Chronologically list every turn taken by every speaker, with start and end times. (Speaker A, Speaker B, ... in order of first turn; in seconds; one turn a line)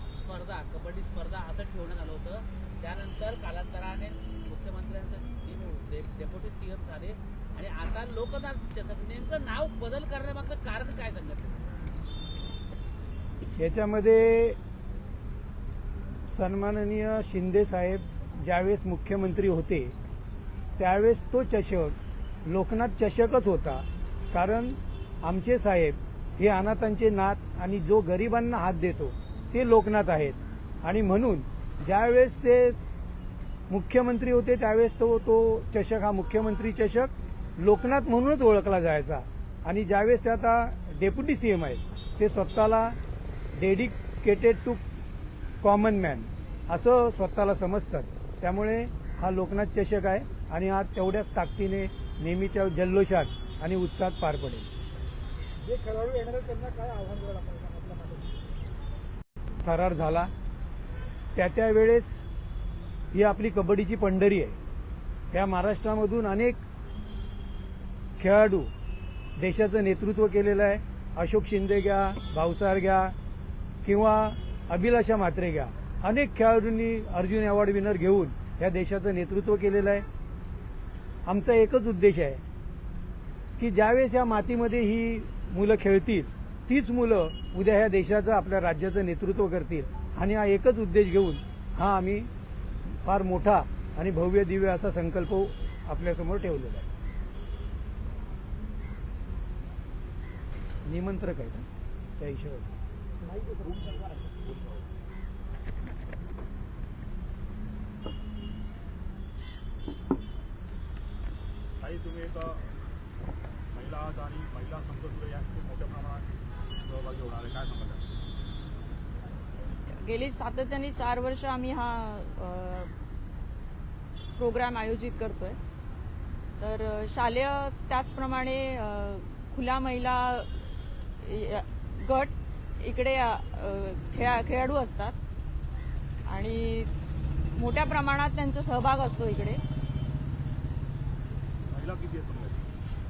Speaker A: 0.2-11.8
Speaker B: 13.6-14.6
Speaker B: 16.3-19.9
Speaker B: 20.8-32.8
Speaker B: 33.7-43.0
Speaker B: 43.6-44.8
Speaker B: 45.6-54.7
Speaker C: 55.6-58.4
Speaker B: 59.6-60.3
Speaker B: 61.4-62.2
Speaker B: 63.1-64.6
Speaker B: 65.3-66.6
Speaker B: 68.2-68.7
Speaker B: 69.4-73.1
Speaker B: 73.8-80.0
Speaker B: 81.2-82.4
Speaker B: 83.6-92.3
Speaker B: 92.9-96.9
Speaker B: 100.8-101.7
Speaker B: 102.2-102.7
Speaker C: 103.2-104.2
Speaker D: 111.8-112.6
Speaker D: 113.7-116.2
Speaker D: 116.8-118.1
Speaker E: 120.0-122.9
Speaker E: 124.4-125.6
Speaker E: 126.6-130.5
Speaker E: 131.2-135.2
Speaker E: 136.3-136.9
Speaker E: 137.6-139.6
Speaker D: 141.7-142.6